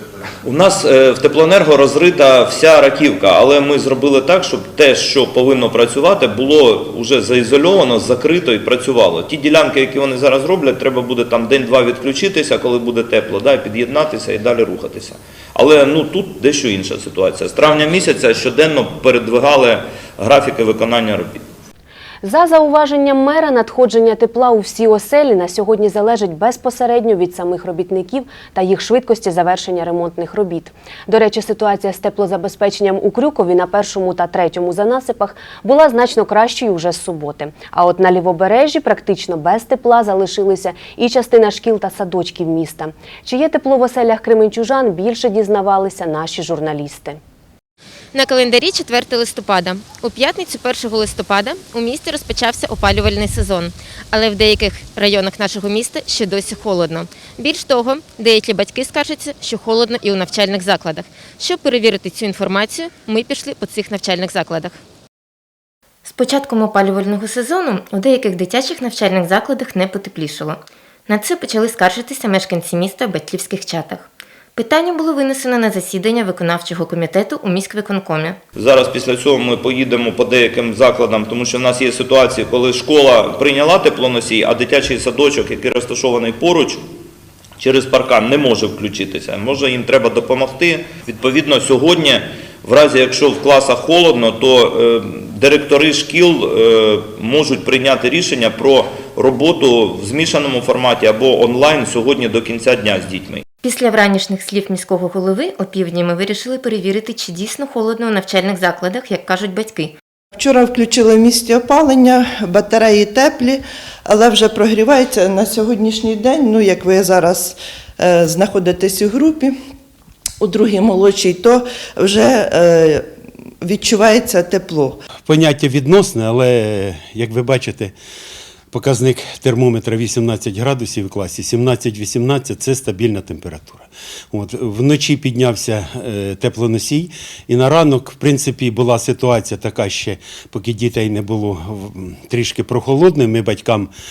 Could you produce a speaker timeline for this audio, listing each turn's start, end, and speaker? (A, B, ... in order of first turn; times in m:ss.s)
0:00.4-0:21.4 A
0:22.2-0:47.2 B
0:48.1-1:04.8 C
1:06.0-1:18.4 C
1:18.6-1:26.8 A
1:27.6-1:43.4 A
1:43.6-1:49.9 C
1:50.3-1:59.6 D
2:00.4-2:05.0 D
2:05.2-2:07.9 E
2:08.7-2:23.9 E